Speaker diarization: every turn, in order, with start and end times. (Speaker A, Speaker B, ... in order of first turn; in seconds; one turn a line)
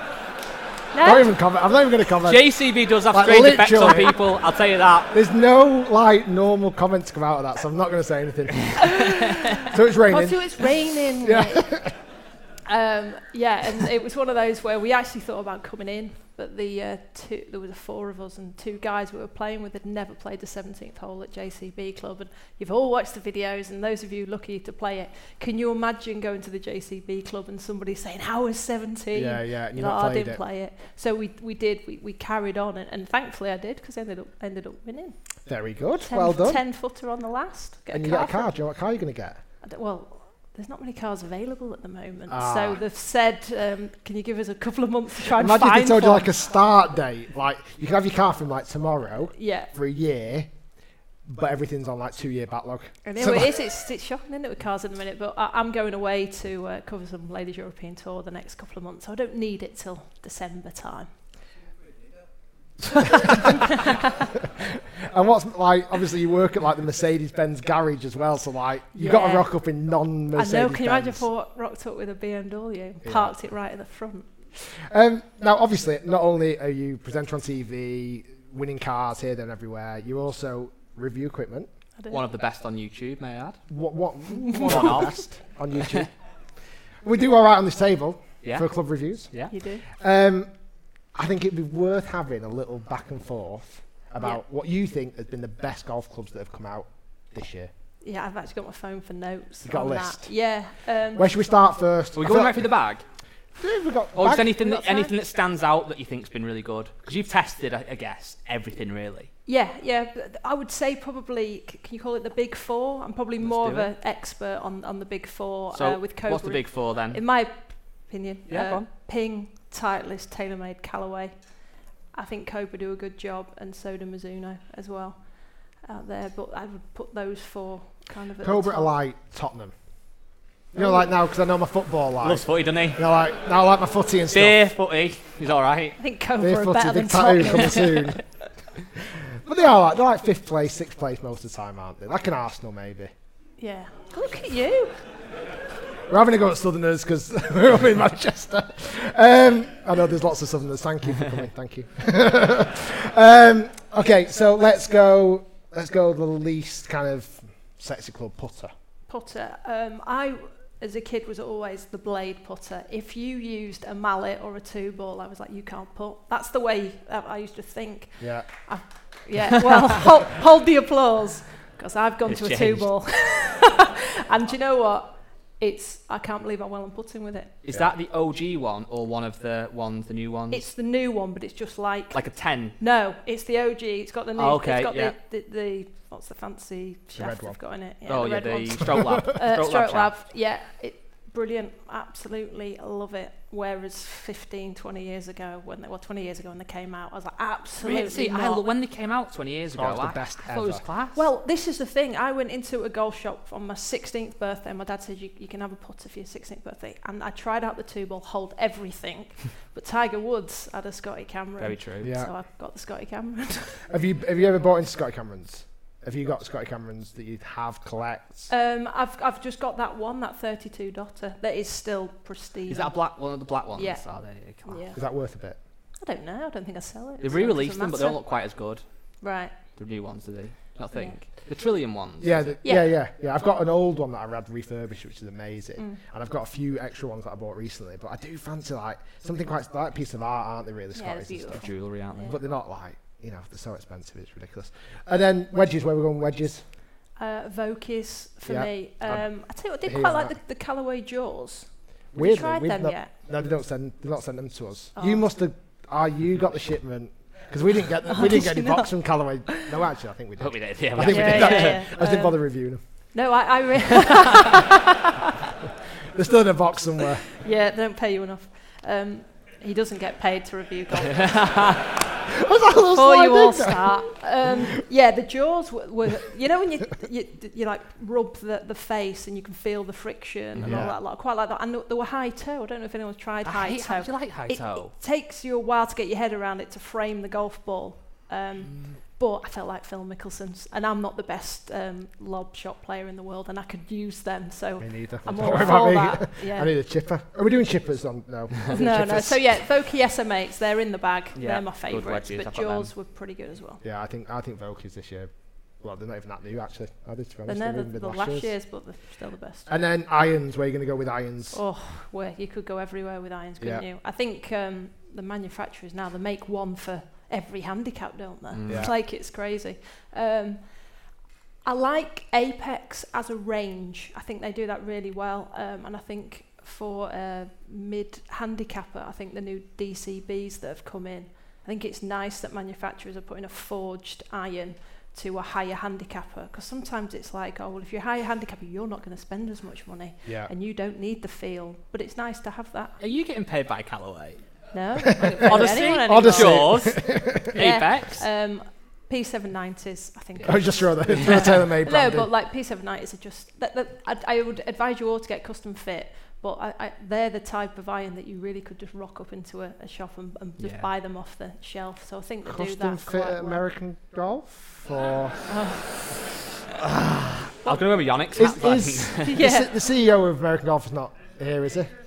Speaker A: 0.9-1.4
Speaker B: 1.0-2.5
Speaker C: 2.2-5.1
Speaker B: 3.1-4.2
Speaker B: 5.1-9.1
Speaker A: 9.0-11.7
Speaker B: 9.6-10.7
Speaker B: 11.2-11.9
Speaker A: 12.7-35.1
Speaker B: 29.1-30.4
Speaker B: 35.5-36.6
Speaker A: 36.0-38.5
Speaker B: 37.9-39.4
Speaker A: 39.6-46.5
Speaker B: 42.3-42.8
Speaker B: 45.3-50.5
Speaker A: 49.3-49.7
Speaker B: 51.2-53.5
Speaker A: 53.0-61.1
Speaker B: 63.0-63.6
Speaker A: 63.0-64.2
Speaker B: 64.4-71.3
Speaker A: 68.9-69.5
Speaker A: 70.3-74.3
Speaker B: 73.0-73.3
Speaker B: 74.7-81.7
Speaker A: 82.0-82.2
Speaker C: 82.1-83.6
Speaker B: 83.7-86.1
Speaker C: 84.6-85.2
Speaker B: 87.0-89.3
Speaker C: 88.4-88.7
Speaker A: 89.5-89.8
Speaker B: 89.9-90.5
Speaker B: 91.1-97.7
Speaker A: 98.0-101.4
Speaker B: 99.6-100.3
Speaker B: 101.1-102.7
Speaker C: 102.1-103.0
Speaker B: 103.6-104.6
Speaker C: 104.1-109.3
Speaker A: 104.6-105.1
Speaker A: 109.5-128.9
Speaker C: 113.4-113.9
Speaker C: 115.7-117.2
Speaker C: 118.5-118.9
Speaker B: 128.4-129.7
Speaker B: 130.7-134.6
Speaker A: 130.8-131.1
Speaker C: 132.2-133.0
Speaker C: 134.3-136.0
Speaker A: 136.0-138.2
Speaker B: 136.4-138.2
Speaker B: 139.3-143.1
Speaker A: 143.6-144.9
Speaker B: 146.1-158.7
Speaker A: 159.1-177.6
Speaker B: 168.2-168.5
Speaker C: 172.2-172.9
Speaker C: 177.6-180.7
Speaker A: 180.5-198.7
Speaker C: 182.1-182.8
Speaker C: 184.4-185.2
Speaker B: 187.1-187.6
Speaker C: 188.1-190.1
Speaker C: 197.8-201.2
Speaker B: 199.7-200.8
Speaker A: 201.1-213.8
Speaker C: 211.6-212.1
Speaker B: 212.0-212.3
Speaker B: 213.9-218.5
Speaker A: 218.5-223.0
Speaker C: 222.7-224.8
Speaker A: 223.7-224.1
Speaker A: 224.6-225.0
Speaker B: 224.9-225.6
Speaker A: 226.0-228.4
Speaker C: 227.2-229.0
Speaker A: 229.2-229.6
Speaker C: 229.8-232.6
Speaker A: 230.9-231.2
Speaker B: 232.2-241.6
Speaker A: 232.6-233.0
Speaker A: 240.9-242.4
Speaker C: 241.5-242.3
Speaker B: 242.2-246.6
Speaker A: 247.2-253.1
Speaker B: 248.4-250.4
Speaker B: 252.1-262.8
Speaker A: 254.9-255.3
Speaker A: 258.1-259.8
Speaker C: 260.4-261.8
Speaker A: 261.0-262.4
Speaker A: 263.1-265.3
Speaker B: 266.1-267.2
Speaker A: 267.3-271.8
Speaker C: 271.1-271.8
Speaker B: 272.3-274.0
Speaker A: 272.9-296.7
Speaker C: 280.5-280.9
Speaker B: 280.6-280.9
Speaker C: 283.4-284.9
Speaker C: 288.7-289.0
Speaker B: 294.8-299.6
Speaker A: 298.7-303.8
Speaker C: 301.3-302.9
Speaker B: 303.8-308.5
Speaker A: 307.5-309.7
Speaker B: 309.7-311.6
Speaker A: 311.5-321.1
Speaker B: 313.6-313.8
Speaker C: 318.5-318.9
Speaker B: 318.7-318.9
Speaker A: 321.6-342.9
Speaker B: 340.2-340.5
Speaker C: 343.0-344.4
Speaker A: 344.7-346.9
Speaker B: 345.1-347.5
Speaker C: 345.2-348.2
Speaker A: 347.5-363.6
Speaker B: 350.4-352.3
Speaker C: 360.6-360.9
Speaker B: 362.4-365.4
Speaker A: 365.5-366.1
Speaker C: 366.8-369.4
Speaker B: 368.3-372.0
Speaker A: 369.2-369.8